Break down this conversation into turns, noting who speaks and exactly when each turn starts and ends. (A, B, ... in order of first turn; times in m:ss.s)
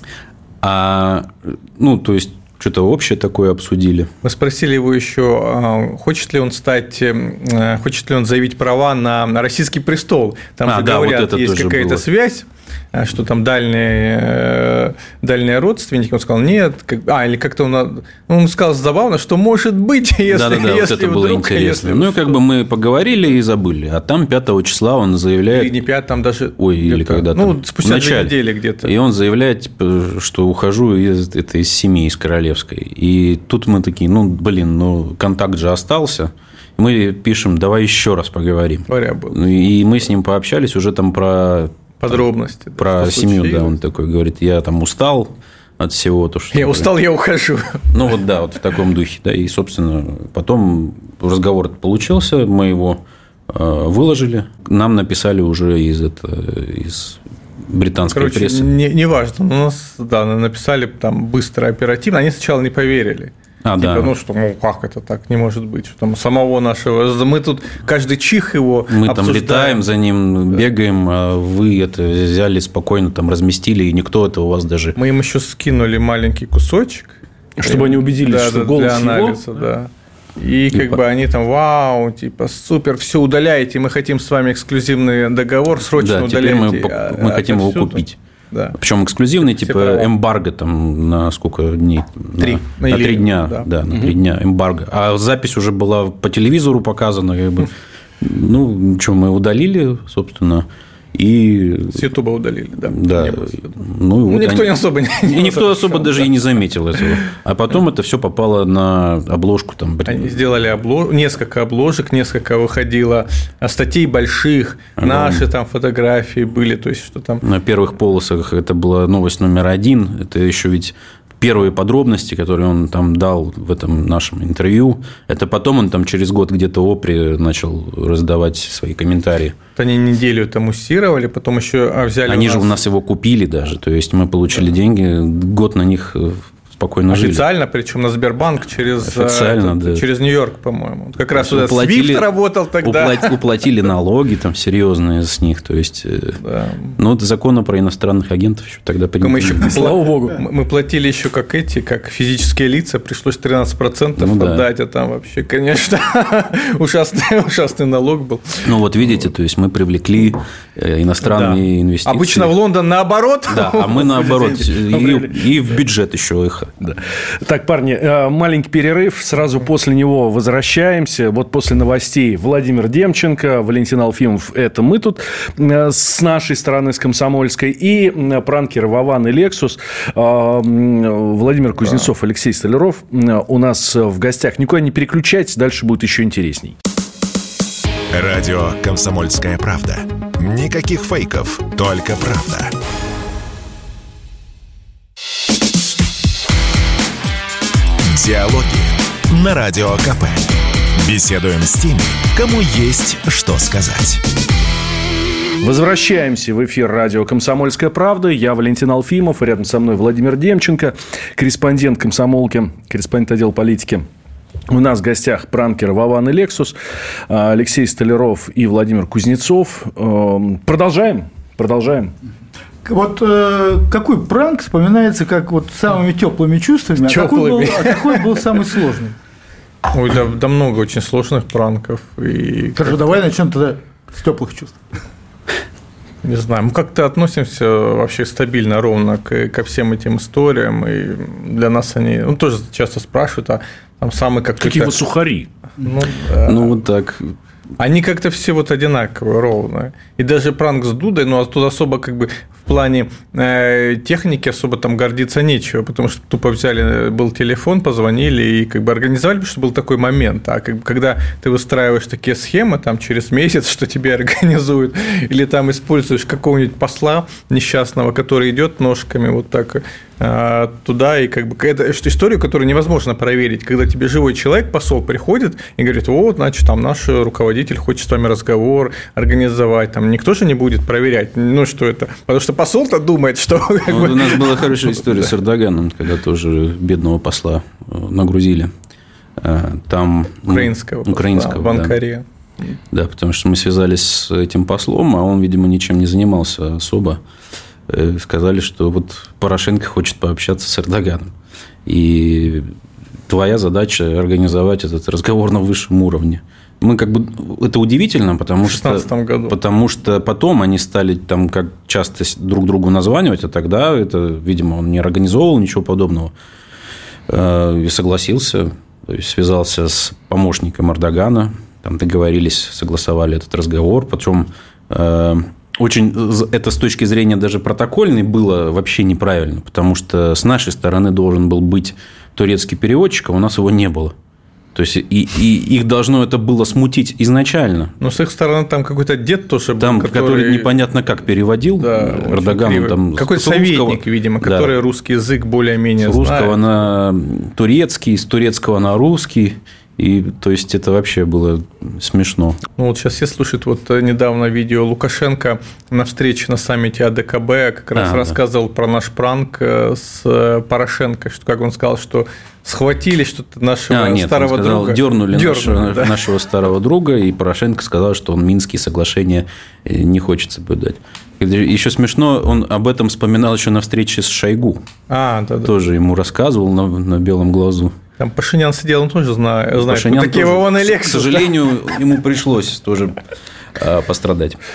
0:00.6-0:04.1 A
0:04.2-0:22.4 B
0:10.7-0:12.0 A
0:20.3-0:25.8 A
0:25.5-0:28.9 B
0:26.6-0:42.2 A
0:38.9-0:39.5 B
0:42.0-0:43.7 B
0:42.8-0:46.9 A
0:46.5-0:47.9 B
0:47.9-0:58.7 A
0:58.1-1:09.8 B
1:03.6-1:04.1 A
1:08.9-1:15.0 A
1:15.0-1:28.8 B
1:17.6-1:19.4 C
1:20.7-1:21.0 A
1:25.9-1:28.2 A
1:28.8-1:42.0 A
1:29.4-1:30.1 B
1:32.4-1:33.7 B
1:41.9-1:46.3 B
1:42.9-1:50.6 A
1:50.0-1:57.4 B
1:55.0-1:55.5 A
1:57.4-2:09.6 A
2:09.8-2:12.8 B
2:12.3-2:17.4 A
2:17.1-2:23.4 B
2:19.0-2:20.0 A
2:21.3-2:26.4 A
2:26.4-2:27.0 B
2:26.9-2:29.8 A
2:29.2-2:38.7 B
2:29.6-2:30.4 C
2:34.2-2:34.6 A
2:38.6-2:42.5 A
2:41.2-2:44.7 B
2:43.5-2:46.8 A
2:44.9-2:45.4 C
2:46.8-3:06.8 C
3:08.1-3:12.7 D
3:18.0-3:24.2 D
3:25.6-3:34.0 C
3:34.7-3:36.7 C
3:37.3-3:42.1 C
3:42.8-3:49.2 E
3:47.0-3:48.4 B
3:49.9-3:53.2 B
3:52.8-3:54.8 E
3:56.2-4:05.0 B
4:04.6-4:05.5 C
4:05.8-4:06.8 B
4:06.4-4:07.3 A
4:07.8-4:45.3 B
4:43.9-4:48.7 A
4:49.4-4:52.0 A
4:50.5-4:52.2 B
4:52.9-4:57.2 A
4:57.9-5:01.3 A
5:01.8-5:02.7 A
5:03.3-5:16.3 A
5:08.6-5:09.6 B
5:17.3-5:34.1 A
5:34.7-5:37.9 A
5:38.0-5:40.7 B
5:39.8-5:44.7 A
5:41.8-5:46.6 B
5:46.0-5:52.6 A
5:52.8-6:06.2 B
5:57.9-5:58.4 A
6:03.9-6:14.8 A
6:15.1-6:15.7 B
6:15.6-6:17.9 A
6:18.2-6:21.5 B
6:19.8-6:23.2 A
6:23.8-6:24.6 A